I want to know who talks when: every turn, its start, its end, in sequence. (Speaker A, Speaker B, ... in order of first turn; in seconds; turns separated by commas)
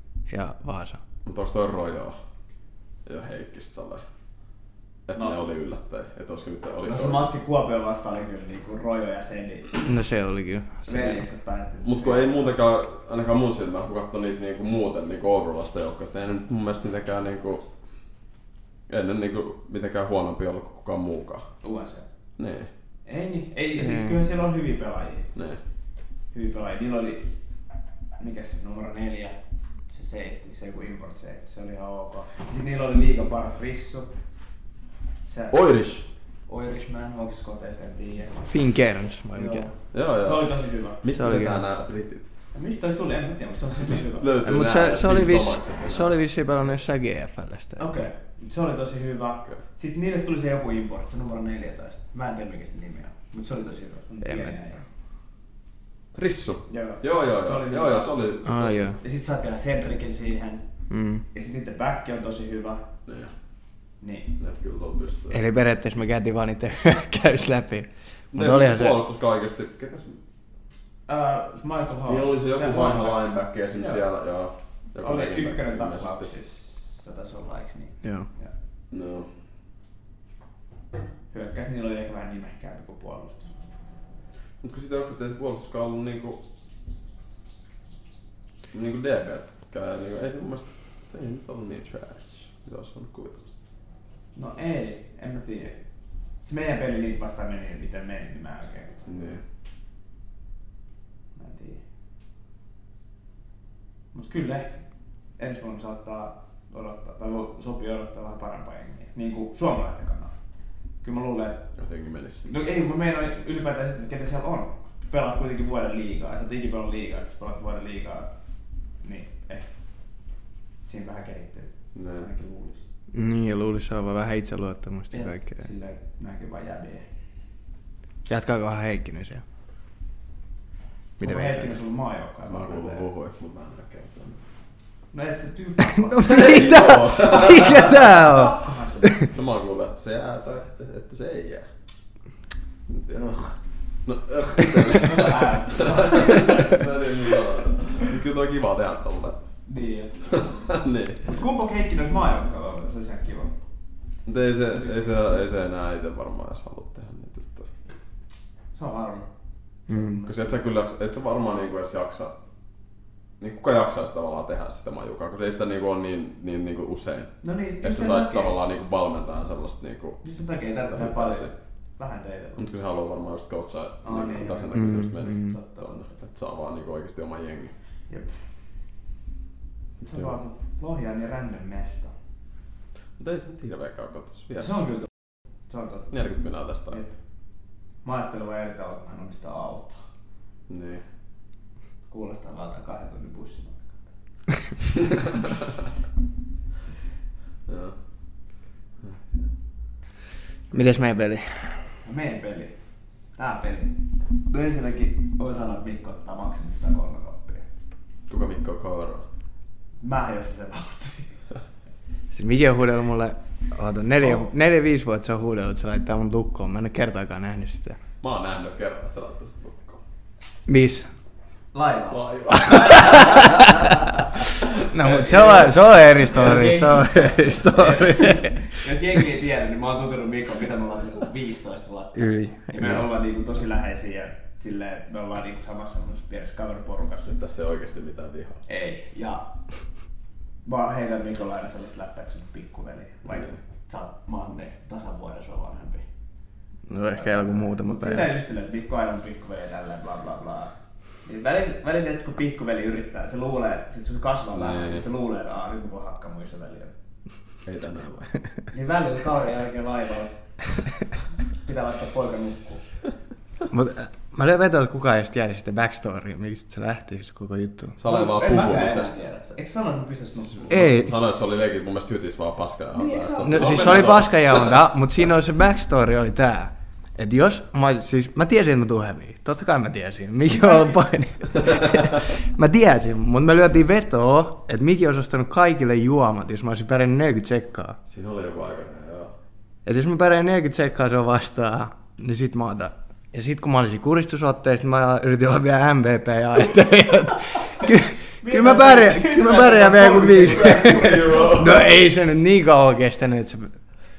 Speaker A: 0.3-1.0, Speaker B: 1.2-2.2, Speaker B: 3.0-4.0, Speaker B: 5.1-7.3, Speaker C: 5.2-5.5, Speaker C: 6.8-9.9, Speaker A: 9.8-11.2, Speaker C: 10.8-12.6, Speaker B: 11.8-17.6, Speaker B: 18.9-21.5, Speaker C: 21.6-22.1, Speaker B: 22.4-22.7, Speaker C: 23.0-25.3, Speaker A: 23.8-24.2, Speaker B: 25.3-25.6, Speaker C: 26.3-27.3, Speaker C: 28.2-29.4, Speaker C: 29.9-34.1, Speaker C: 35.3-35.6, Speaker B: 35.5-36.1, Speaker C: 36.5-38.5, Speaker A: 38.5-39.7, Speaker C: 39.3-41.0, Speaker B: 39.9-42.3, Speaker A: 41.1-41.6, Speaker C: 42.5-44.4, Speaker B: 43.9-46.2, Speaker A: 44.4-47.9, Speaker C: 47.8-54.8, Speaker A: 54.2-54.6, Speaker B: 56.1-58.9, Speaker C: 56.7-60.6, Speaker A: 58.5-59.0, Speaker A: 60.9-61.2, Speaker C: 61.3-62.8, Speaker B: 63.0-63.3, Speaker C: 64.0-64.3, Speaker B: 64.4-65.4, Speaker A: 65.3-69.0, Speaker B: 68.3-70.2, Speaker C: 71.1-74.0, Speaker B: 72.1-76.3, Speaker C: 75.0-78.5, Speaker A: 78.0-78.3, Speaker B: 78.9-79.3, Speaker C: 81.3-83.6, Speaker B: 84.6-86.4, Speaker B: 88.7-93.5, Speaker C: 94.3-95.8, Speaker C: 96.4-99.0, Speaker B: 99.0-99.4, Speaker C: 101.3-101.8, Speaker C: 104.1-104.8, Speaker C: 105.4-110.3, Speaker C: 111.0-111.7, Speaker B: 111.8-112.5, Speaker C: 112.5-118.3, Speaker C: 119.0-119.7, Speaker C: 120.8-122.8, Speaker B: 121.9-122.3, Speaker A: 123.1-125.7, Speaker C: 125.1-127.1, Speaker A: 128.3-129.4, Speaker A: 131.2-131.8, Speaker C: 131.2-133.1, Speaker B: 132.5-134.4, Speaker C: 135.1-139.3, Speaker A: 136.0-139.2, Speaker B: 136.2-138.1, Speaker B: 139.2-141.7, Speaker B: 142.9-143.5, Speaker B: 144.0-149.4, Speaker C: 145.0-146.8, Speaker C: 149.7-150.6, Speaker B: 150.3-151.3, Speaker C: 151.2-153.5, Speaker B: 154.2-157.7, Speaker C: 154.7-155.2, Speaker C: 158.7-159.3, Speaker C: 159.9-160.6, Speaker A: 159.9-160.2, Speaker B: 160.2-162.3, Speaker B: 163.4-170.2, Speaker C: 167.4-168.6, Speaker C: 170.2-172.8, Speaker B: 170.9-171.5, Speaker B: 172.6-177.7, Speaker C: 174.0-176.1, Speaker A: 174.7-175.6, Speaker C: 178.1-178.3, Speaker B: 180.0-180.4, Speaker C: 180.0-182.1, Speaker B: 183.2-184.8, Speaker C: 184.6-185.1, Speaker C: 185.7-186.1, Speaker B: 186.1-187.0, Speaker C: 186.9-187.1, Speaker C: 188.0-190.0, Speaker B: 190.7-191.0, Speaker C: 192.1-194.1, Speaker B: 197.7-198.0, Speaker B: 199.0-199.5, Speaker A: 200.7-201.8, Speaker C: 202.0-202.7, Speaker C: 203.4-203.9, Speaker C: 204.5-207.6, Speaker B: 208.3-209.2, Speaker C: 210.0-211.4, Speaker A: 212.3-218.0, Speaker B: 218.2-220.0, Speaker A: 220.7-221.1, Speaker C: 221.7-223.5, Speaker B: 222.1-224.5, Speaker A: 222.8-223.9, Speaker A: 224.8-228.7, Speaker C: 225.0-237.3, Speaker A: 232.1-233.1, Speaker B: 237.2-238.6, Speaker C: 238.7-239.5, Speaker C: 240.6-246.1, Speaker B: 243.2-243.6, Speaker A: 246.9-248.3, Speaker C: 247.0-256.9, Speaker B: 254.5-255.0, Speaker B: 257.6-258.3, Speaker C: 258.7-260.8, Speaker C: 261.5-262.9, Speaker A: 263.7-268.0, Speaker B: 268.0-269.1, Speaker C: 268.0-270.9, Speaker B: 270.6-274.8, Speaker A: 270.7-271.1, Speaker C: 272.9-274.3, Speaker A: 273.5-288.0, Speaker C: 280.5-281.0, Speaker B: 288.1-289.3, Speaker A: 289.8-303.7, Speaker C: 298.4-301.8, Speaker B: 300.2-301.8